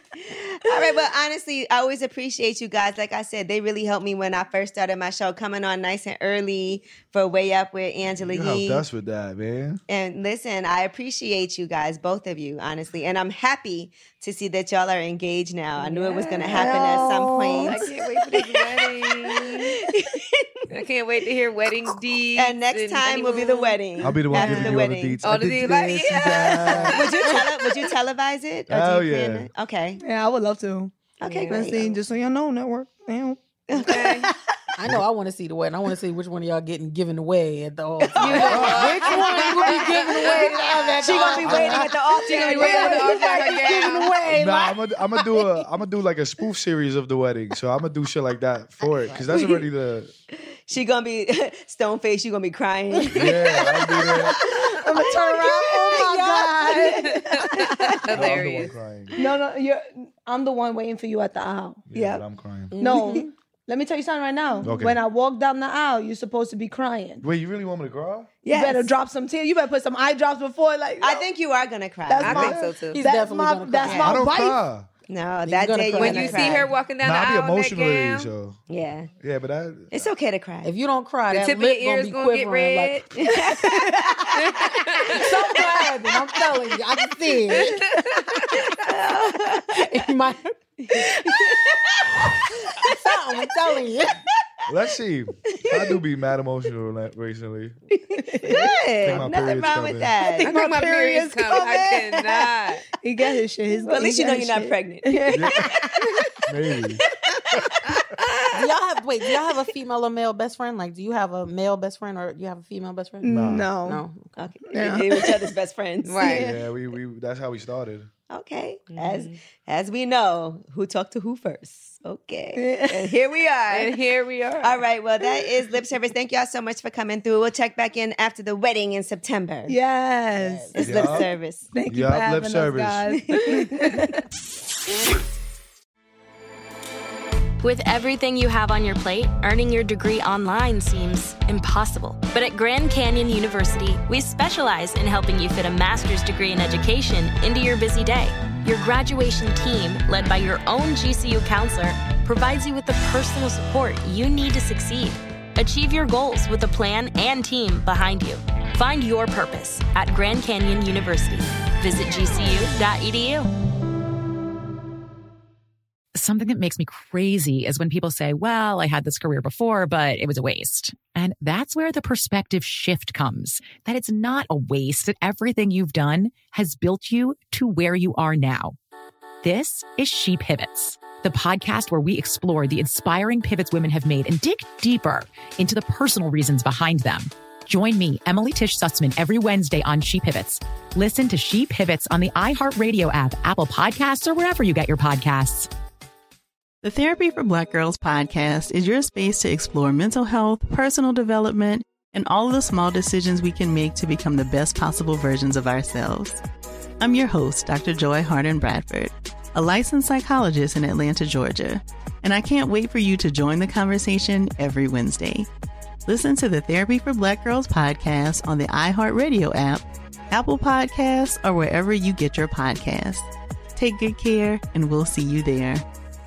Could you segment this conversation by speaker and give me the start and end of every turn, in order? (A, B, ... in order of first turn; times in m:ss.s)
0:00.3-0:08.8 A
0:08.2-0:09.8 B
0:09.9-0:20.5 A
0:15.8-0:17.0 C
0:16.5-0:17.9 D
0:17.6-0:19.7 C
0:20.7-0:23.8 C
0:22.3-0:25.2 A
0:24.0-0:27.1 B
0:24.4-0:27.2 C
0:26.8-0:30.0 A
0:28.7-0:29.5 B
0:30.0-0:30.9 D
0:31.2-0:32.0 A
0:31.2-0:31.6 C
0:31.5-0:33.9 D
0:33.7-0:34.3 A
0:33.8-0:34.3 C
0:34.8-0:44.8 E
0:38.0-0:39.8 A
0:38.2-0:41.3 C
0:38.5-0:39.2 B
0:41.0-0:43.2 A
0:41.3-0:41.8 B
0:42.1-0:44.2 C
0:44.3-0:50.1 B
0:49.3-0:49.6 A
0:50.7-0:58.3 A
0:53.1-0:54.4 B
0:54.8-0:57.2 D
0:55.4-0:56.8 E
0:57.0-0:58.7 C
0:58.1-0:59.1 B
0:59.2-1:01.8 D
1:01.9-1:02.7 B
1:01.9-1:03.3 A
1:02.7-1:03.1 C
1:02.8-1:07.2 D
1:04.6-1:05.0 B
1:07.2-1:08.4 B
1:08.4-1:08.9 A
1:08.5-1:11.2 D
1:11.0-1:12.5 A
1:12.1-1:14.6 D
1:12.2-1:13.0 C
1:12.2-1:12.7 B
1:12.9-1:14.2 E
1:13.8-1:14.2 A
1:14.0-1:14.9 B
1:15.1-1:16.7 A
1:15.4-1:16.7 E
1:15.9-1:18.3 C
1:17.0-1:18.6 B
1:18.7-1:19.1 A
1:19.2-1:20.1 B
1:19.9-1:20.7 A
1:20.6-1:23.1 E
1:21.3-1:23.3 C
1:23.2-1:24.6 A
1:24.4-1:25.3 C
1:25.1-1:27.9 E
1:28.5-1:29.9 A
1:29.9-1:30.5 E
1:30.8-1:32.1 A
1:32.7-1:33.0 A
1:32.8-1:34.2 E
1:34.7-1:37.8 B
1:38.2-1:40.6 A
1:38.2-1:38.6 D
1:39.0-1:40.1 B
1:40.2-1:42.0 D
1:40.4-1:42.8 C
1:41.5-1:42.5 A
1:43.0-1:45.6 D
1:43.8-1:46.2 A
1:45.3-1:45.7 B
1:46.5-1:47.0 B
1:47.2-1:48.0 A
1:48.5-1:54.3 E
1:53.2-1:54.0 D
1:53.2-1:53.7 B
1:54.4-1:56.5 A
1:54.7-1:55.3 D
1:56.0-1:56.5 C
1:56.2-1:58.1 B
1:58.3-2:03.9 A
1:58.9-1:59.4 C
2:02.6-2:03.1 D
2:03.7-2:04.8 C
2:04.6-2:09.7 A
2:09.7-2:10.7 D
2:10.4-2:10.7 E
2:10.7-2:11.7 A
2:10.8-2:11.3 B
2:11.7-2:14.2 D
2:11.8-2:13.1 B
2:13.1-2:14.1 A
2:17.6-2:43.5 F
2:46.1-2:58.8 G
2:59.4-3:15.7 G
3:16.8-3:26.4 H
3:27.0-3:35.5 H
3:36.0-3:45.8 H